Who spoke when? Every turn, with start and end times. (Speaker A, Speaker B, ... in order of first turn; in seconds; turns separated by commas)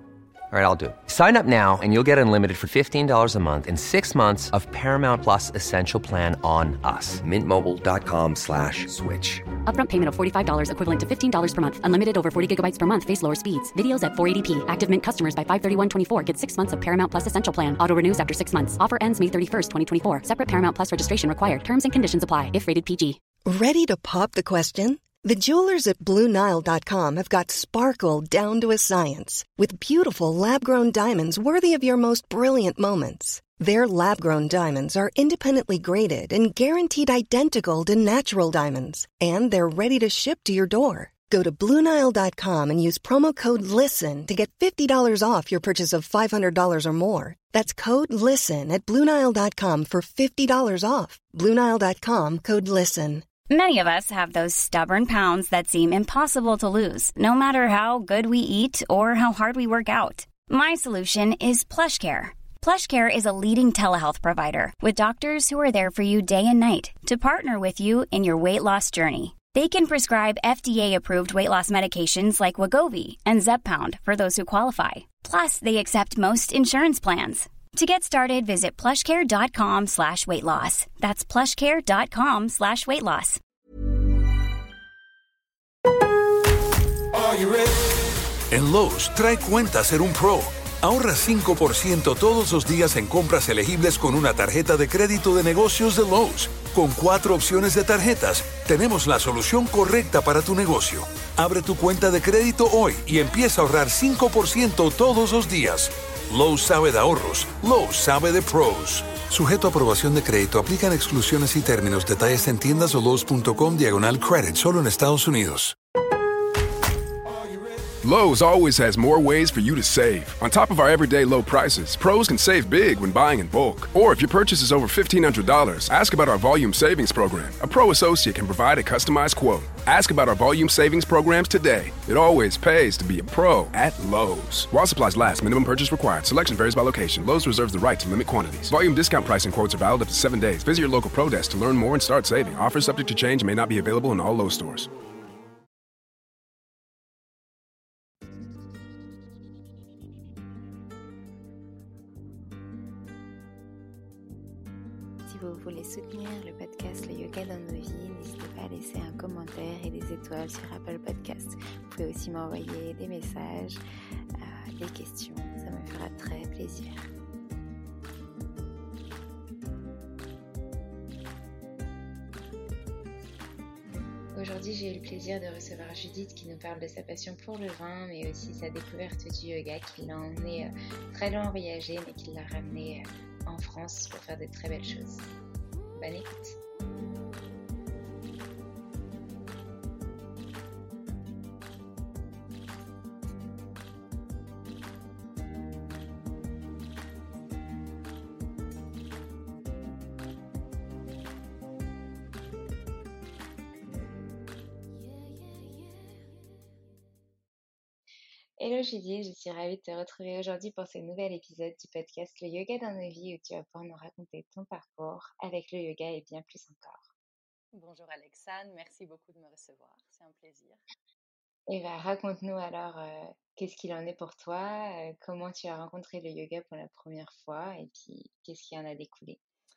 Speaker A: 0.5-9.4, Speaker B: 9.6-23.2, Speaker C: 23.4-53.2, Speaker D: 53.5-83.4, Speaker E: 87.3-87.6, Speaker E: 88.5-115.8, Speaker F: 118.0-144.9, Speaker G: 155.2-163.8, Speaker G: 164.4-167.1, Speaker G: 174.3-185.3, Speaker G: 185.9-186.6, Speaker G: 208.6-217.1, Speaker H: 217.7-220.8, Speaker G: 221.7-229.4